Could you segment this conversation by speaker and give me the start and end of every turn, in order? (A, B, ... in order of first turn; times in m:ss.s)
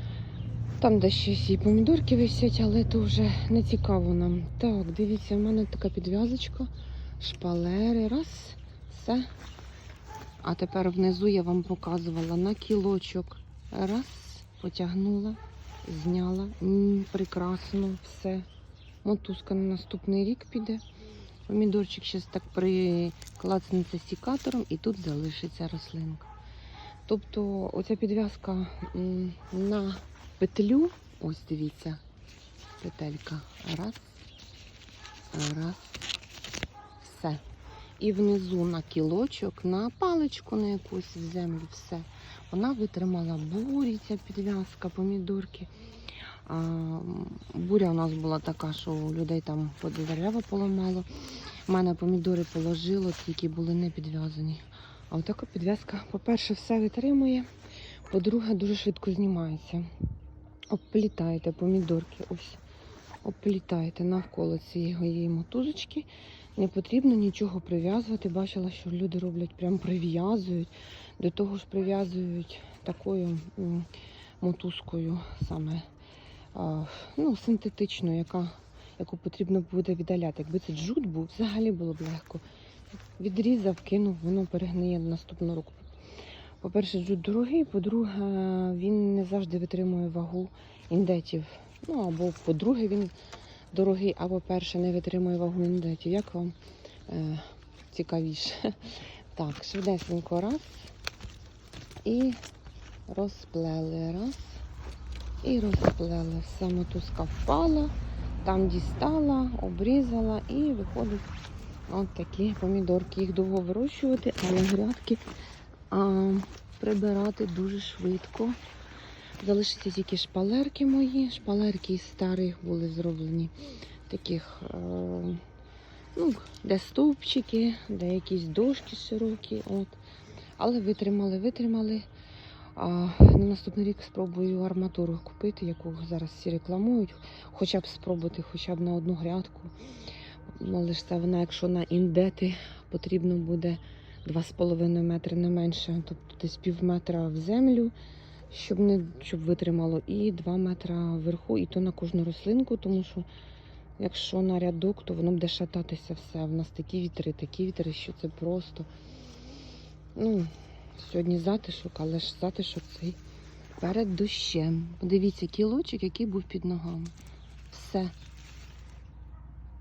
0:00.8-0:09.3 A
0:10.4-0:18.5 A
0:19.0-0:20.8 A
0:21.5-0:26.3 A
0:27.1-0:32.0 A
0:32.8-0:34.2 A
0:35.3-0:36.0 A
0:37.0-0:37.4 A
0:38.0-0:45.7 A
0:46.4-0:51.1 A
0:51.6-0:57.5 A
0:58.1-0:59.9 A
1:00.7-1:02.6 A
1:03.2-1:13.9 A
1:14.4-1:15.9 A
1:16.5-1:22.4 A
1:23.2-1:25.9 A
1:26.6-1:33.1 A
1:33.7-1:36.5 A
1:37.1-1:40.9 A
1:42.0-1:42.4 A
1:43.1-1:44.6 A
1:45.4-1:51.3 A
1:51.9-1:55.2 A
1:55.9-1:58.6 A
1:59.4-2:03.5 A
2:04.1-2:05.4 A
2:06.1-2:10.0 A
2:10.6-2:12.1 A
2:12.7-2:19.7 A
2:20.5-2:27.9 A
2:28.5-2:33.3 A
2:34.0-2:38.9 A
2:40.2-2:43.2 A
2:43.8-2:47.1 A
2:47.7-2:48.1 A